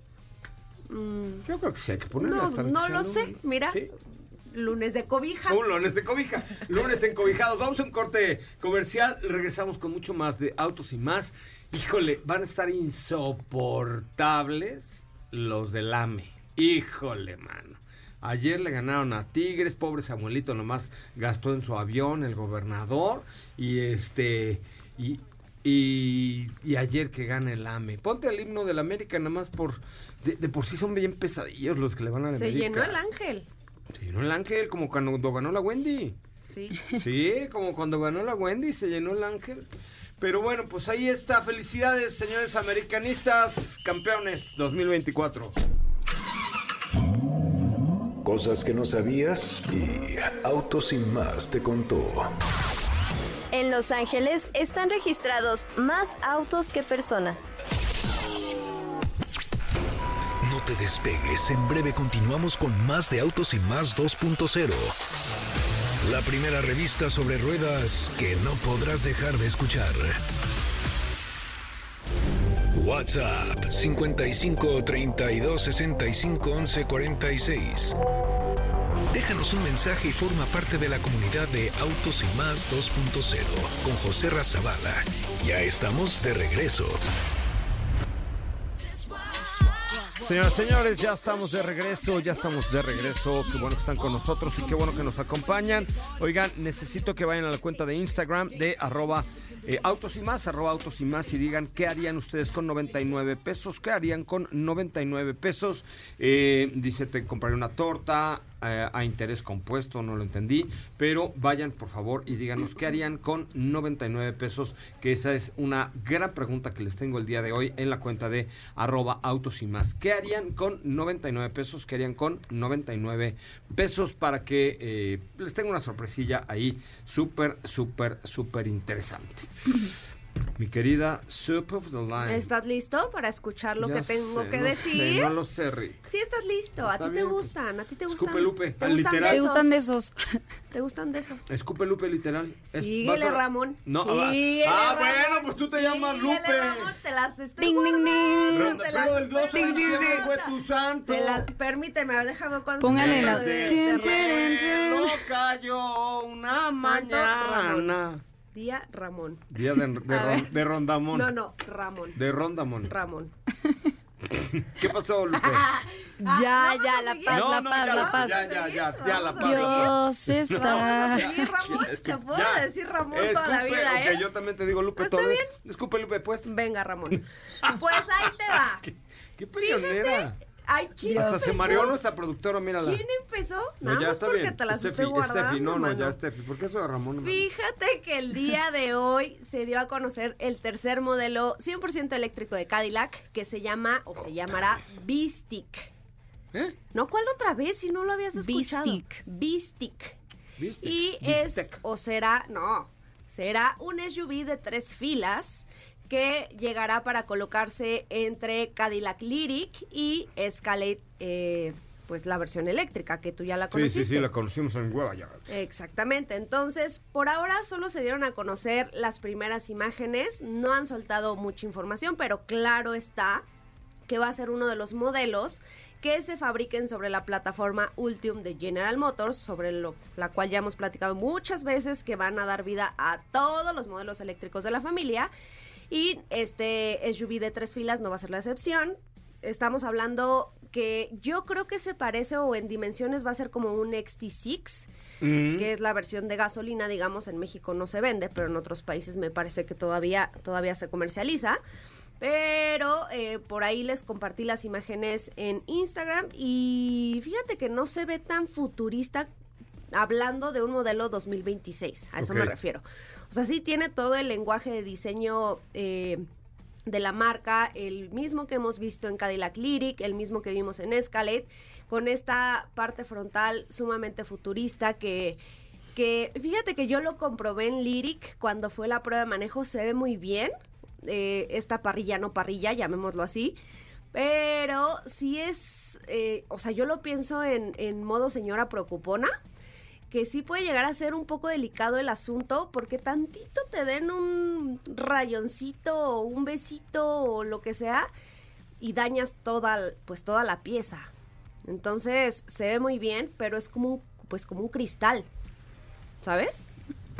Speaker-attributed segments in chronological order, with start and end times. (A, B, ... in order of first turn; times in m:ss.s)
0:00.9-0:01.4 A
0:01.4-0:03.9 B
0:02.2-0:03.9 A
0:04.5-0:05.6 A
0:05.5-0:33.0 B
0:32.3-0:33.5 A
0:33.9-0:36.2 B
0:36.4-0:36.8 A
0:36.8-0:39.6 B
0:40.2-0:45.5 B
0:48.2-0:52.3 C
0:53.5-0:57.5 D
1:00.4-1:05.0 C
1:06.0-1:10.2 C
1:12.7-1:18.0 C
1:19.1-1:27.0 C
1:30.1-2:09.5 B
2:10.6-2:12.5 B
2:12.2-2:15.3 A
2:13.8-2:16.0 B
2:16.0-2:19.8 A
2:16.8-2:17.5 B
2:18.1-2:19.5 B
2:19.2-2:20.4 E
2:20.7-2:21.5 A
2:21.5-2:26.9 B
2:22.7-2:30.5 A
2:27.6-2:28.8 E
2:28.5-2:31.5 B
2:29.5-2:30.3 E
2:31.0-2:34.6 A
2:32.8-2:35.2 E
2:32.8-2:38.2 B
2:36.7-2:37.9 A
2:38.5-2:39.5 A
2:39.5-2:41.3 B
2:40.0-2:40.5 A
2:41.1-2:42.2 A
2:42.1-2:42.9 B
2:42.8-2:43.3 A
2:44.3-2:45.7 B
2:45.4-2:54.2 A
2:46.2-2:48.5 E
2:47.3-2:56.5 B
2:49.4-2:51.5 E
2:55.0-2:55.5 A
2:56.4-2:58.8 A
2:57.1-3:00.4 B
2:59.6-3:02.0 A
3:01.0-3:03.0 B
3:02.8-3:06.2 A
3:03.8-3:07.5 B
3:07.2-3:15.9 A
3:16.9-3:20.2 A
3:18.4-3:19.2 E
3:20.6-3:21.8 B
3:20.8-3:34.3 A
3:33.7-3:35.5 B
3:35.5-3:43.4 A
3:44.1-3:55.3 A
3:55.9-4:04.9 A
4:05.2-4:05.7 B
4:05.5-4:11.6 A
4:12.2-4:19.3 A
4:19.9-4:26.2 A
4:22.2-4:22.5 B
4:26.9-4:35.4 A
4:35.9-4:43.6 A
4:44.1-4:49.4 A
4:50.1-4:58.1 A
4:58.8-5:01.1 A
5:01.6-5:05.3 A
5:06.2-5:06.7 A